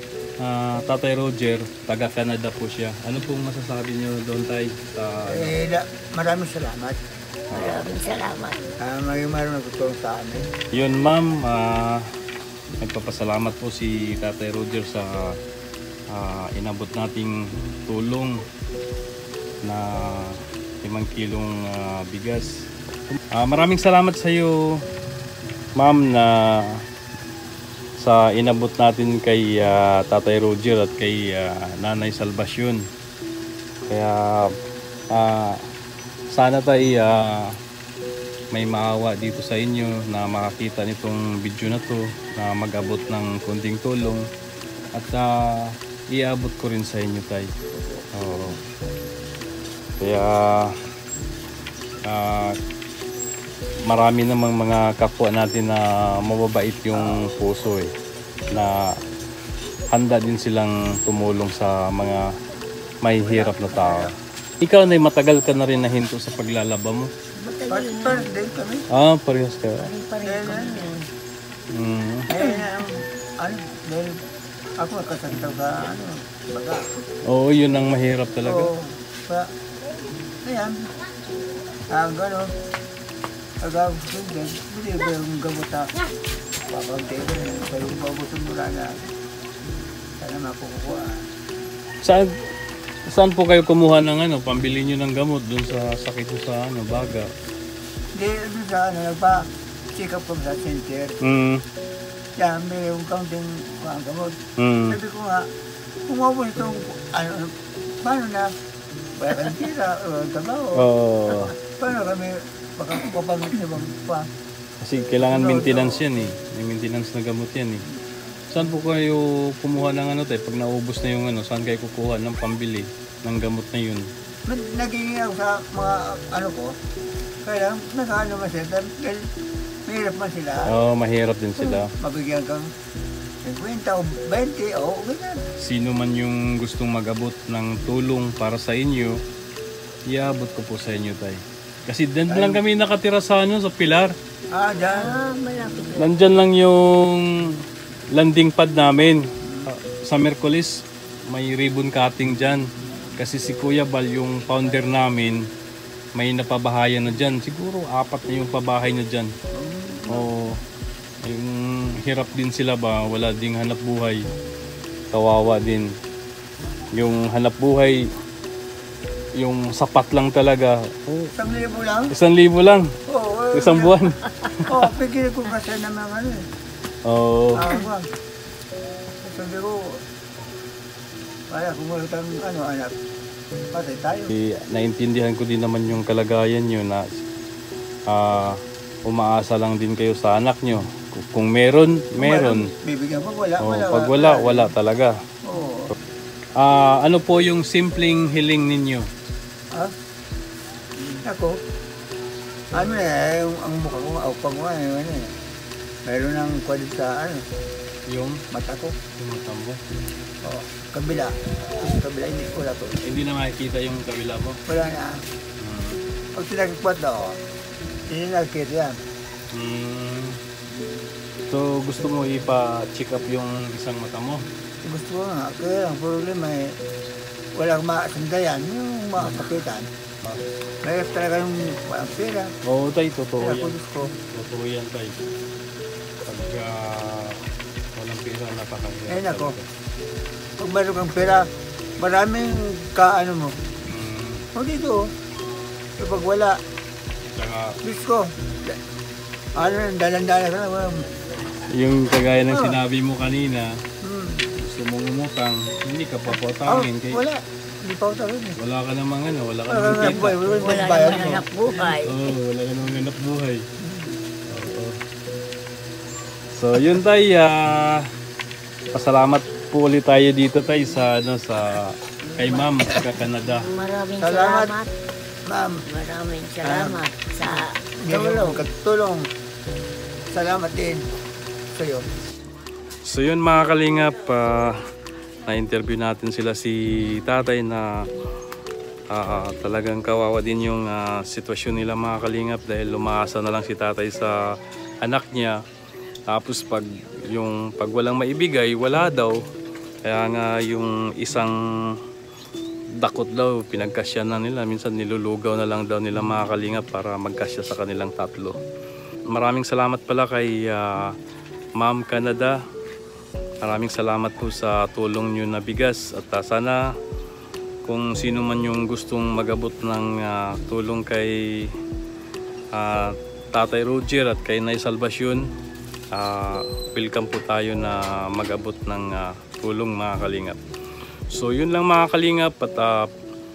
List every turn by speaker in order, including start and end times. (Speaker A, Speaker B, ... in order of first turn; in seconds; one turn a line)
Speaker A: 0.4-5.5
Speaker B: 5.2-7.0
Speaker A: 7.5-7.8
Speaker C: 7.5-8.7
Speaker B: 8.8-10.5
Speaker A: 10.7-12.1
Speaker A: 12.8-15.4
Speaker A: 16.1-18.4
Speaker A: 19.6-22.5
Speaker A: 23.1-24.8
Speaker A: 25.8-26.8
Speaker A: 28.0-32.8
Speaker A: 33.9-34.5
Speaker A: 35.1-35.6
Speaker A: 36.3-37.5
Speaker A: 38.5-44.2
Speaker A: 44.9-47.5
Speaker A: 48.1-48.6
Speaker A: 50.0-50.7
Speaker A: 52.0-52.5
Speaker A: 53.9-57.9
Speaker B: 56.9-57.2
Speaker A: 58.5-58.9
Speaker A: 59.9-62.2
Speaker A: 63.0-64.1
Speaker B: 63.2-64.1
Speaker A: 64.6-67.1
Speaker C: 67.3-68.3
Speaker B: 67.7-68.8
Speaker A: 68.9-69.9
Speaker C: 69.8-70.9
Speaker B: 70.2-71.0
Speaker A: 71.7-72.3
Speaker B: 72.3-74.2
Speaker B: 74.8-76.8
Speaker A: 77.2-78.7
Speaker B: 78.4-79.5
Speaker B: 80.4-80.9
Speaker B: 81.9-82.5
Speaker B: 83.6-85.9
Speaker B: 86.7-89.0
Speaker B: 90.2-91.2
Speaker A: 92.0-92.3
Speaker A: 93.0-97.3
Speaker B: 98.2-99.4
Speaker B: 99.9-101.1
Speaker A: 101.2-101.6
Speaker B: 102.4-104.3
Speaker A: 104.6-105.0
Speaker B: 104.9-105.5
Speaker B: 106.1-107.5
Speaker B: 108.0-108.5
Speaker B: 109.2-110.8
Speaker A: 110.8-111.5
Speaker B: 111.8-114.2
Speaker A: 114.8-117.8
Speaker B: 115.2-116.0
Speaker A: 118.5-124.1
Speaker B: 124.5-126.7
Speaker B: 127.4-129.2
Speaker B: 129.9-130.7
Speaker A: 130.7-131.9
Speaker B: 131.6-132.7
Speaker B: 133.4-135.4
Speaker A: 135.6-139.2
Speaker A: 140.1-144.1
Speaker B: 142.3-142.6
Speaker B: 144.5-145.1
Speaker C: 144.9-146.2
Speaker A: 146.0-147.6
Speaker A: 148.1-155.4
Speaker B: 149.4-149.7
Speaker A: 156.2-159.3
Speaker B: 159.5-160.3
Speaker A: 160.1-160.6
Speaker A: 161.2-164.2
Speaker A: 165.1-165.9
Speaker A: 166.9-168.0
Speaker A: 169.3-171.3
Speaker B: 171.4-172.1
Speaker A: 172.1-172.9
Speaker B: 173.1-174.0
Speaker A: 173.5-174.8
Speaker B: 174.7-176.4
Speaker A: 177.0-177.7
Speaker B: 177.5-178.1
Speaker B: 179.2-179.8
Speaker B: 181.5-182.9
Speaker B: 183.7-184.3
Speaker A: 184.3-187.1
Speaker A: 188.1-192.7
Speaker B: 192.2-194.7
Speaker A: 193.6-195.1
Speaker B: 195.4-195.9
Speaker A: 196.6-199.1
Speaker B: 201.0-201.6
Speaker B: 202.7-205.3
Speaker B: 206.1-207.4
Speaker A: 208.1-208.4
Speaker B: 208.5-208.9
Speaker A: 209.2-209.8
Speaker B: 210.4-213.0
Speaker A: 213.0-214.6
Speaker B: 214.7-215.2
Speaker A: 215.6-216.0
Speaker B: 216.3-217.4
Speaker B: 218.1-219.0
Speaker A: 219.5-220.4
Speaker B: 220.7-221.1
Speaker A: 221.5-224.4
Speaker B: 224.8-226.8
Speaker B: 227.5-232.5
Speaker A: 229.2-229.6
Speaker A: 232.6-233.7
Speaker B: 233.4-234.1
Speaker A: 234.3-235.2
Speaker A: 236.2-237.4
Speaker A: 237.9-239.7
Speaker B: 239.1-239.5
Speaker B: 240.6-241.5
Speaker B: 242.0-243.5
Speaker A: 243.9-244.4
Speaker B: 244.5-245.0
Speaker B: 246.0-246.6
Speaker A: 247.2-247.8
Speaker B: 247.8-248.8
Speaker B: 249.6-251.0
Speaker A: 251.7-253.8
Speaker B: 252.5-252.8
Speaker B: 254.0-254.4
Speaker A: 254.5-257.2
Speaker B: 256.6-258.6
Speaker A: 258.6-261.2
Speaker B: 259.7-261.4
Speaker C: 260.6-262.3
Speaker A: 261.8-263.6
Speaker B: 263.8-264.1
Speaker A: 264.5-265.0
Speaker A: 266.5-268.1
Speaker A: 268.9-273.7
Speaker C: 272.2-272.7
Speaker C: 273.4-274.9
Speaker B: 274.2-274.7
Speaker B: 275.4-275.8
Speaker C: 275.8-278.6
Speaker B: 276.6-279.3
Speaker B: 280.3-281.0
Speaker B: 281.7-282.1
Speaker A: 283.0-284.8
Speaker A: 285.4-287.9
Speaker A: 289.1-294.3
Speaker A: 295.0-295.6
Speaker A: 296.3-299.4
Speaker A: 300.1-301.5
Speaker A: 303.0-308.6
Speaker A: 309.3-311.1
Speaker A: 311.8-312.6
Speaker A: 313.6-316.8
Speaker A: 317.9-321.7
Speaker A: 322.7-325.4
Speaker A: 326.1-330.6
Speaker A: 331.3-333.1